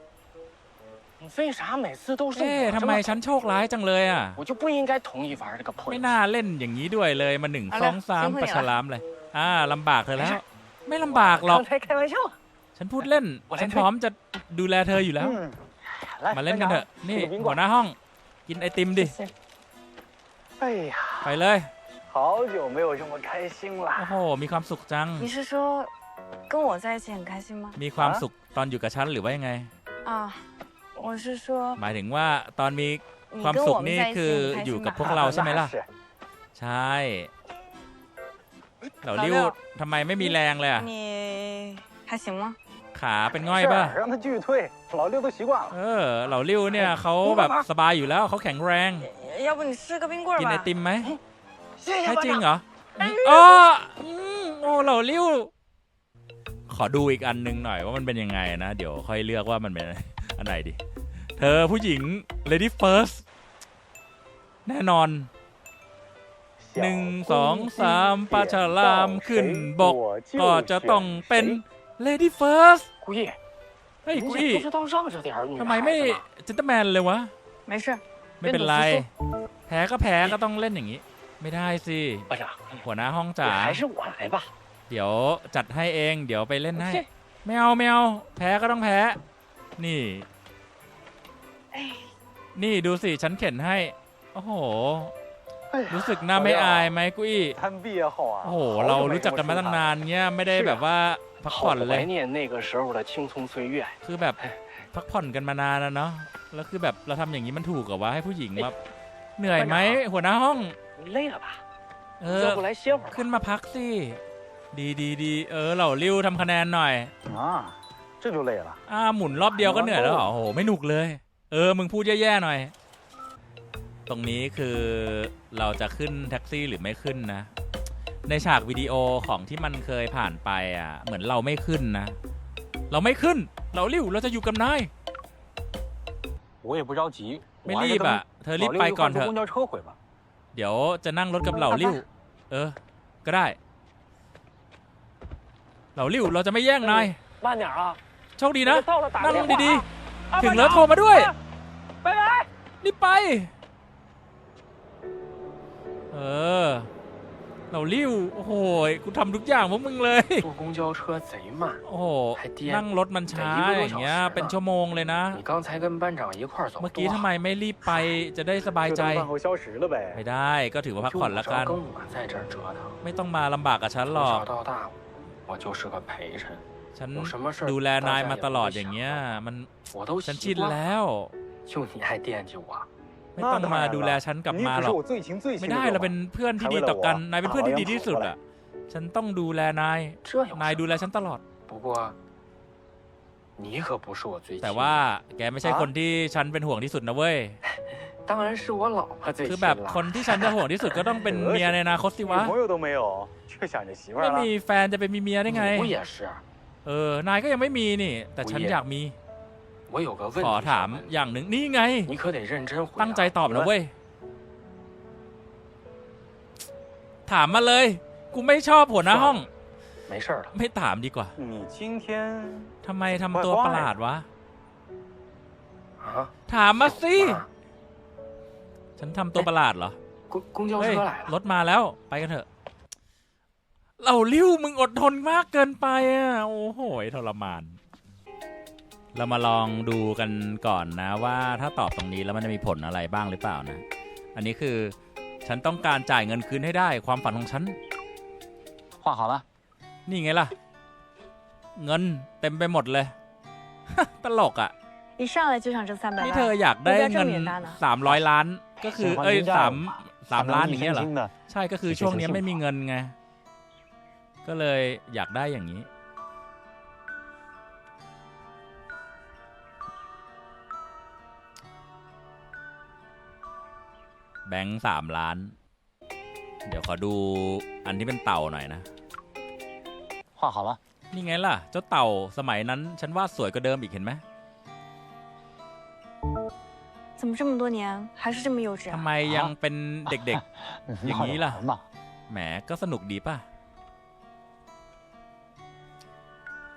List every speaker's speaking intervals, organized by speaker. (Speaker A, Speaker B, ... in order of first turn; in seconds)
Speaker A: 1.2-3.2, 4.4-6.1, 11.1-12.3, 13.5-13.9, 51.8-52.4, 73.0-73.4, 74.1-76.2, 82.3-82.8, 83.4-84.5, 86.7-87.1, 100.5-100.8, 101.5-104.0, 109.6-110.0, 111.0-111.6, 112.3-113.3, 141.7-142.0, 146.8-148.0, 148.6-151.3, 152.0-152.5, 160.4-161.8, 162.4-164.6, 165.3-167.3, 171.0-172.9, 174.1-174.9, 175.5-176.6, 177.2-179.2, 179.9-180.8, 181.7-182.9, 190.2-190.9, 191.7-192.2, 193.6-195.0, 198.2-200.6, 205.5-206.4, 208.4-208.8, 209.9-211.1, 212.1-213.4, 219.1-219.5, 220.1-220.5, 226.0-227.5, 230.3-231.3
Speaker B: 2.3-4.4, 5.8-11.7, 12.8-15.4, 16.3-18.0, 18.5-19.2, 21.2-21.7, 23.9-25.3, 27.8-29.7, 31.8-35.7, 36.5-37.3, 39.0-40.9, 42.9-44.0, 45.7-49.1, 50.4-51.2, 52.0-55.5, 56.7-60.8, 61.4-63.2, 64.7-65.3, 66.8-72.9, 74.0-74.7, 75.6-77.3, 78.4-79.1, 79.7-82.3, 82.8-83.8, 84.9-89.2, 89.8-90.3, 92.5-95.1, 95.9-97.6, 98.4-102.1, 104.0-104.4, 104.9-108.8, 109.4-110.8, 112.2-114.2, 114.7-117.1, 118.9-122.7, 124.1-127.5, 128.3-132.2, 132.9-134.9, 137.6-139.3, 140.5-143.6, 145.9-147.2, 148.4-151.3, 152.8-153.5, 156.1-156.9, 157.7-160.5, 161.8-165.4, 166.8-169.3, 170.1-171.8, 173.0-174.5, 176.9-179.7, 180.2-181.3, 183.4-185.0, 185.6-191.4, 194.6-197.6, 199.4-202.5, 204.2-205.9, 206.8-209.2, 210.4-212.1, 213.0-213.9, 217.3-219.5, 220.5-221.4, 222.8-224.3, 226.5-227.4, 229.0-230.0, 230.8-232.5, 234.0-237.8, 239.1-243.8, 244.3-247.8, 250.1-250.5, 251.8-253.2, 253.9-254.7, 256.2-263.1, 264.4-265.9, 274.4-275.6, 276.6-278.9, 281.1-284.2, 288.9-290.4, 291.0-291.6, 292.3-293.4
Speaker C: 7.7-8.7, 25.2-25.9, 26.5-27.8, 30.1-30.4, 31.0-31.8, 33.3-35.2, 39.1-39.6, 40.2-42.6, 47.2-47.7, 49.0-50.7, 53.0-53.4, 77.7-79.0, 91.7-92.1, 255.2-257.8, 287.2-289.1
Speaker D: 15.2-17.6, 20.6-21.3, 22.1-24.1, 28.0-28.2, 35.0-35.9, 43.3-45.7, 66.6-71.6, 95.7-96.9, 97.6-99.9, 117.2-118.8, 119.5-120.3, 136.6-140.0, 168.9-170.2, 183.4-188.3, 195.6-195.9, 201.2-204.5, 221.4-222.7, 223.3-223.9, 249.0-249.4, 258.8-261.3, 261.9-262.6, 280.4-280.8, 289.2-289.5, 290.1-291.8